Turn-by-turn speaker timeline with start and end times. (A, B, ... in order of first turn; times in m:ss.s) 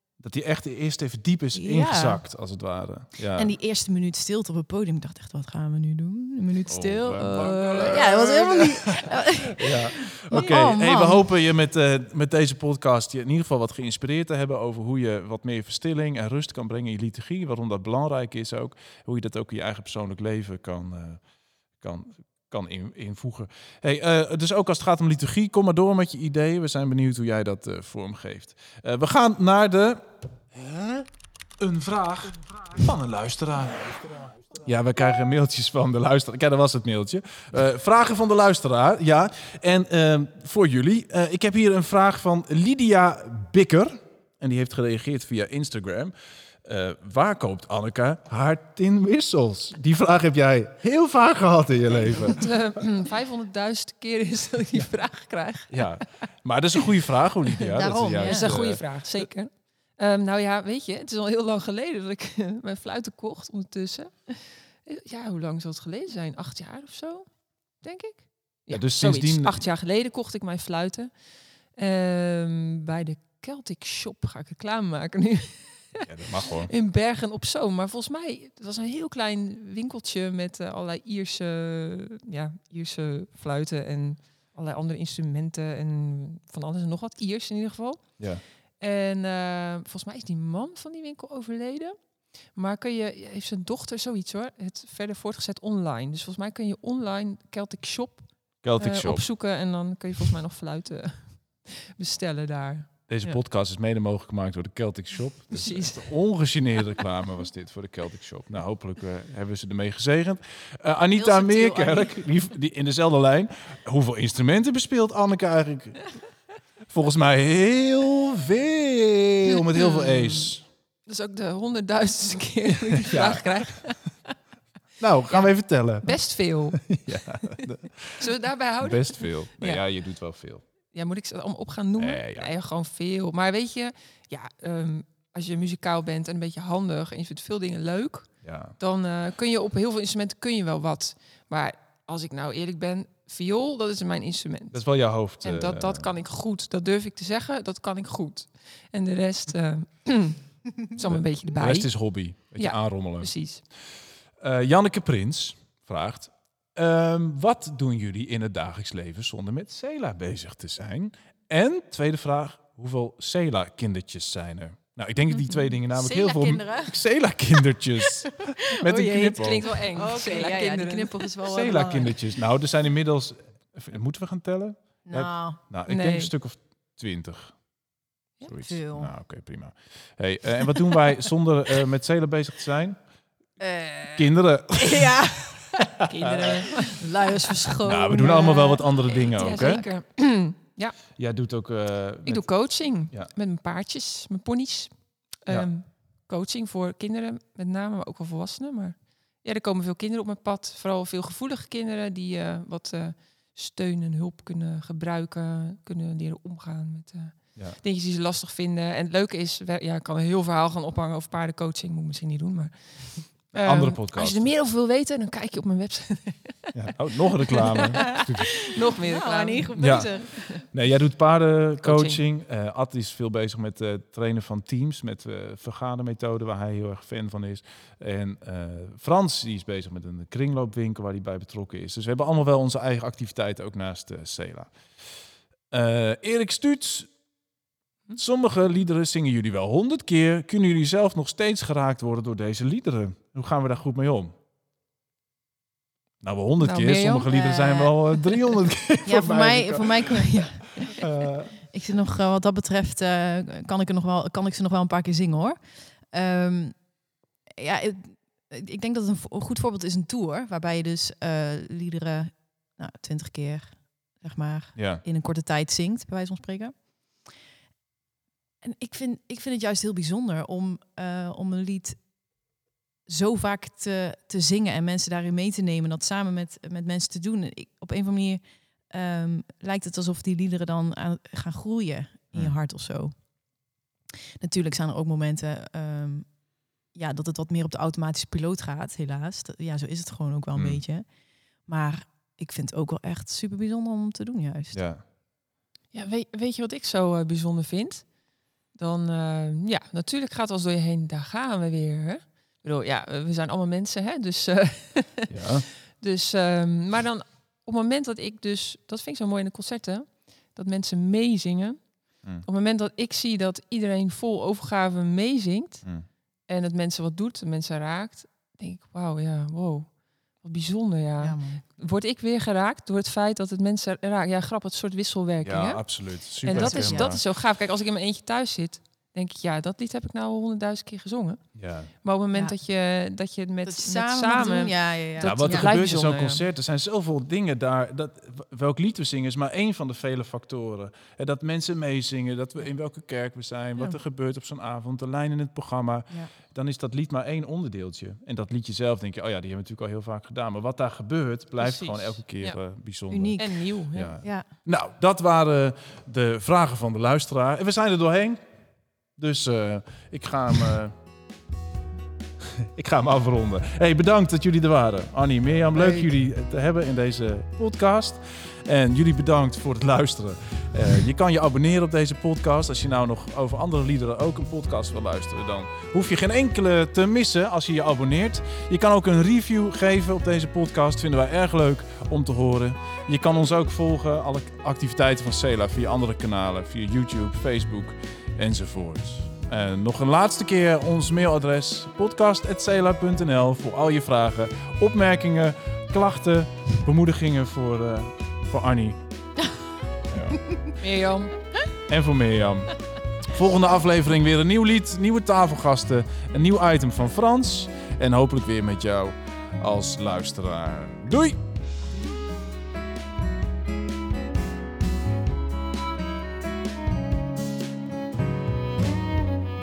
0:00.2-0:03.5 A
0:01.5-0:02.2 B
0:03.3-0:11.3 B
0:06.7-0:21.2 A
0:21.8-0:30.0 A
0:30.5-0:31.0 A
0:31.6-0:46.1 A
0:46.6-0:52.4 A
0:52.1-0:56.0 C
0:55.7-0:59.3 A
0:57.7-0:58.6 B
0:58.2-1:16.0 C
1:08.7-1:09.6 A
1:16.0-1:16.7 A
1:16.6-1:43.3 C
1:38.6-1:39.3 A
1:43.1-1:56.1 A
1:45.5-1:46.1 C
1:51.1-1:52.1 B
1:56.9-2:00.6 A
1:59.5-2:00.5 C
2:01.0-2:04.3 C
2:03.1-2:03.9 A
2:05.0-2:08.2 A
2:05.3-2:07.4 C
2:08.2-2:09.8 C
2:08.8-2:10.6 A
2:10.9-2:33.6 C
2:12.0-2:12.5 A
2:18.4-2:18.8 A
2:24.7-2:26.1 A
2:31.0-2:33.4 A
2:34.4-2:49.7 A
2:45.9-2:47.0 B
2:47.6-2:48.0 B
2:48.8-2:52.2 B
2:49.4-2:51.3 C
2:51.5-2:57.8 A
2:55.0-2:55.6 B
2:55.9-2:56.3 C
2:58.4-3:03.0 A
2:58.6-2:59.1 B
3:03.6-3:05.8 B
3:04.2-3:05.1 A
3:06.0-3:07.0 C
3:06.2-3:06.6 A
3:06.8-3:09.9 B
3:07.8-3:09.8 A
3:09.3-3:11.0 C
3:11.2-3:13.3 A
3:12.2-3:36.7 C
3:33.5-3:34.5 A
3:36.7-3:38.6 A
3:37.5-3:40.6 C
3:39.0-3:40.6 B
3:39.8-3:54.7 A
3:41.8-3:42.2 C
3:55.7-3:57.1 A
3:58.2-4:04.3 A
4:06.2-4:11.6 A
4:06.6-4:08.6 C
4:09.0-4:11.0 B
4:11.6-4:27.3 B
4:24.7-4:25.0 A
4:28.6-4:32.4 B
4:33.0-4:43.7 B
4:44.4-4:54.9 B
4:50.5-4:50.8 A
4:54.7-4:55.0 A
4:55.9-5:36.4 C
5:05.3-5:05.7 A
5:21.2-5:21.6 B
5:25.4-5:27.2 A
5:26.5-5:27.2 B
5:31.5-5:31.9 A
5:32.3-5:32.6 B
5:33.6-5:35.7 B
5:35.2-5:58.4 A
5:51.6-5:52.6 C
5:53.1-5:53.6 B
5:53.4-5:54.2 C
5:54.2-5:54.5 B
5:59.1-6:00.9 A
6:02.7-6:39.3 A
6:05.7-6:06.1 B
6:40.1-6:40.4 A
6:40.8-6:41.6 C
6:41.9-6:51.4 A